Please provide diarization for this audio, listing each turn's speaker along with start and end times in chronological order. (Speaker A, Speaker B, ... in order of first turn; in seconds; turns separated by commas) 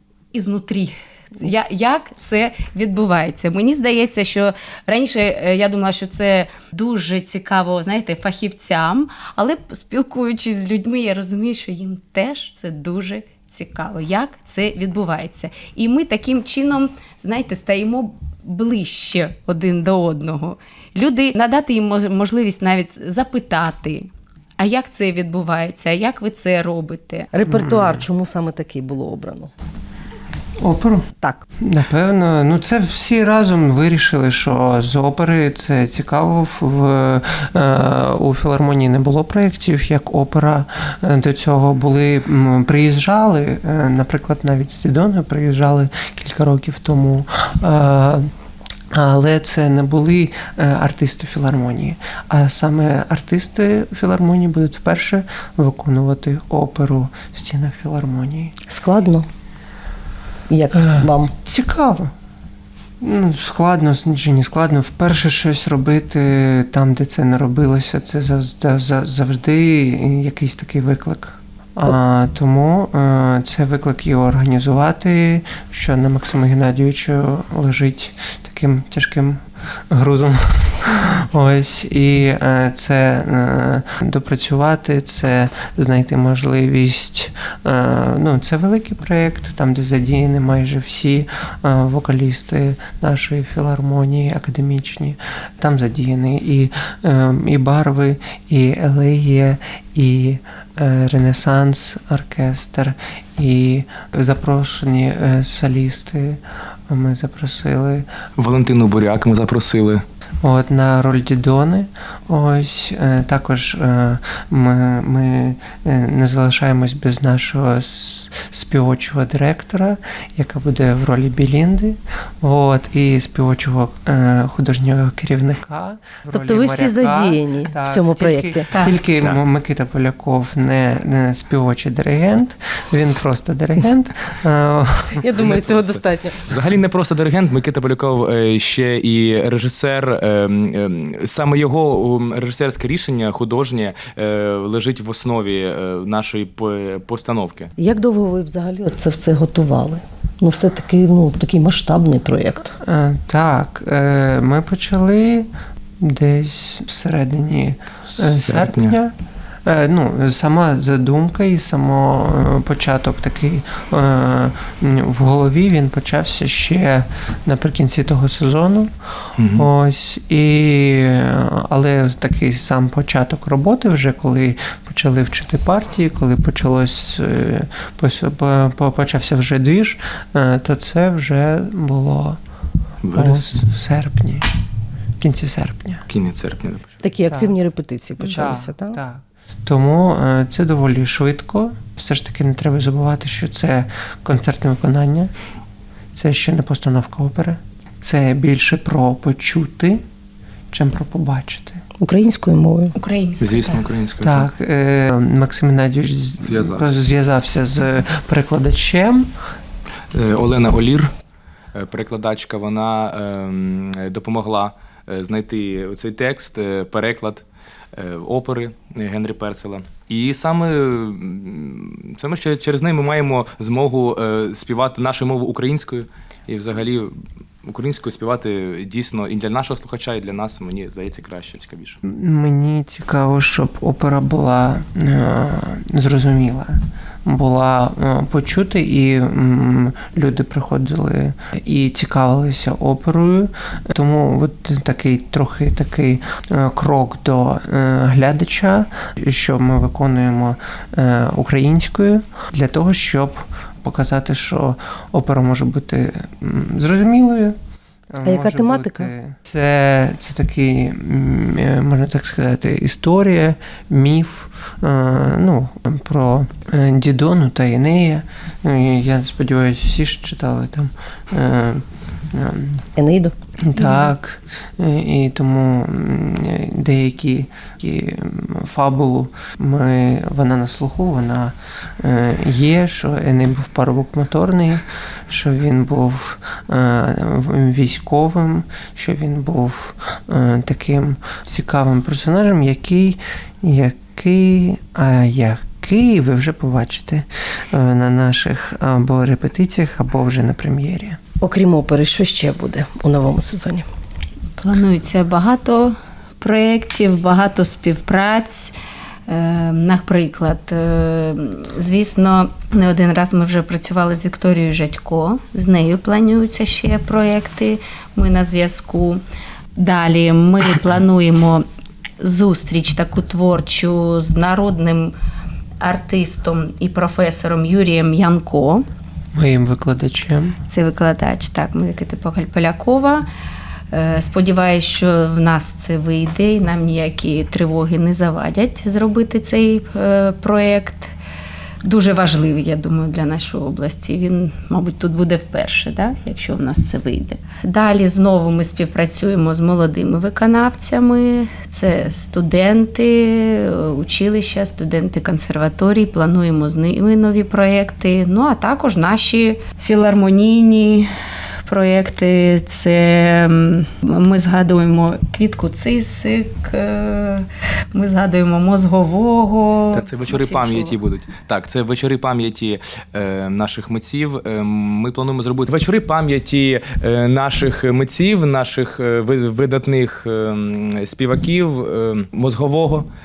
Speaker A: 0.3-24.1, Speaker A: 24.6-27.3, Speaker B: 27.3-29.5, Speaker C: 27.5-28.1, Speaker C: 30.6-31.1, Speaker B: 31.2-31.5, Speaker C: 31.6-48.2, Speaker C: 48.9-58.5, Speaker B: 58.7-59.3, Speaker B: 60.5-61.3, Speaker C: 60.8-62.1, Speaker C: 63.0-108.1, Speaker D: 108.4-110.0, Speaker C: 110.4-135.2, Speaker B: 126.3-128.7, Speaker A: 128.7-129.0, Speaker B: 135.2-136.5, Speaker D: 135.4-147.7, Speaker B: 147.8-152.8, Speaker C: 152.8-155.5, Speaker C: 156.0-159.1, Speaker D: 158.2-159.0, Speaker C: 159.7-168.9, Speaker D: 169.4-169.7, Speaker C: 169.5-182.4, Speaker D: 183.0-183.6, Speaker C: 183.1-184.5, Speaker C: 185.2-186.0, Speaker D: 186.1-187.0, Speaker B: 187.0-189.0, Speaker C: 187.3-187.6, Speaker A: 188.2-188.5, Speaker C: 188.2-195.3, Speaker C: 196.1-200.0, Speaker C: 200.7-201.8, Speaker B: 202.0-203.0, Speaker A: 203.0-203.8, Speaker D: 203.4-204.5, Speaker C: 204.2-209.3, Speaker D: 206.4-207.0, Speaker D: 210.1-211.1, Speaker D: 211.8-217.4, Speaker D: 217.9-232.0, Speaker C: 232.0-257.6, Speaker C: 258.1-272.8, Speaker B: 258.2-259.1, Speaker B: 273.0-273.3, Speaker C: 273.6-301.2, Speaker A: 273.8-274.1, Speaker B: 301.4-303.9, Speaker A: 304.6-308.7, Speaker A: 309.3-319.2, Speaker A: 319.8-321.6, Speaker A: 322.2-325.1, Speaker A: 325.8-328.9, Speaker C: 329.4-330.6, Speaker A: 330.7-333.2, Speaker A: 333.9-341.1, Speaker A: 341.8-361.1, Speaker A: 361.7-371.0, Speaker D: 369.9-383.1